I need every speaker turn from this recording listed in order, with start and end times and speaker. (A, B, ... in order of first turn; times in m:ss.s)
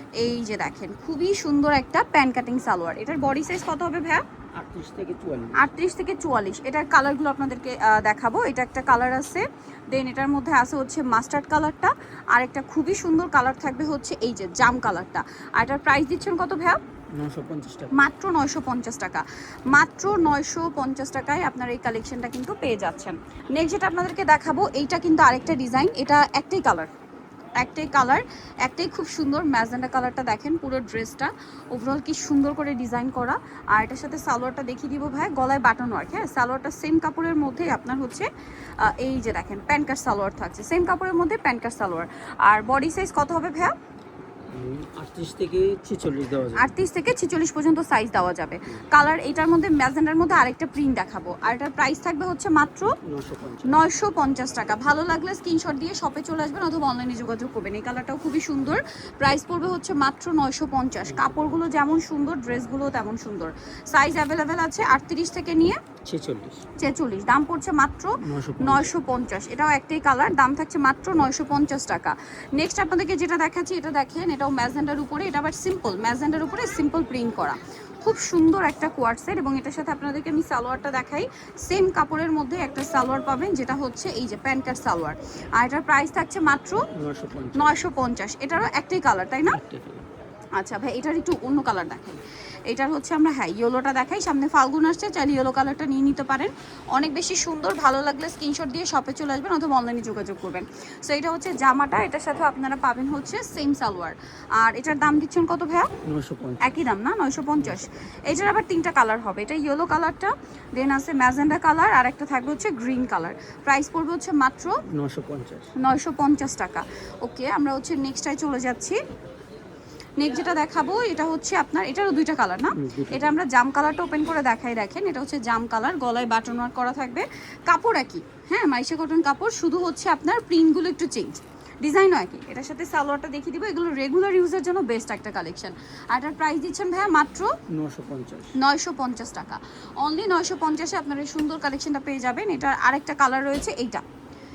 0:00.2-0:04.2 A
0:04.6-0:05.6 B
0:05.6-0:16.8 A
0:17.2-0:17.9 B
0:17.9-0:26.9 A
0:27.6-0:38.3 A
0:38.8-0:43.7 A
0:44.5-0:46.7 B
0:46.6-0:53.0 A
0:53.0-0:53.8 B
0:53.6-1:05.8 A
1:01.1-1:01.5 B
1:06.0-1:06.6 B
1:06.8-1:26.8 A
1:08.2-1:08.9 B
1:26.9-1:27.8 B
1:27.5-1:29.6 A
1:29.5-1:30.0 B
1:30.6-1:45.9 A
1:46.0-1:46.8 B
1:46.6-1:54.8 A
1:47.6-1:47.9 B
1:54.9-1:55.7 B
1:55.8-1:59.0 A
2:00.2-2:17.5 A
2:02.8-2:03.3 B
2:17.7-2:18.5 B
2:18.6-2:24.0 A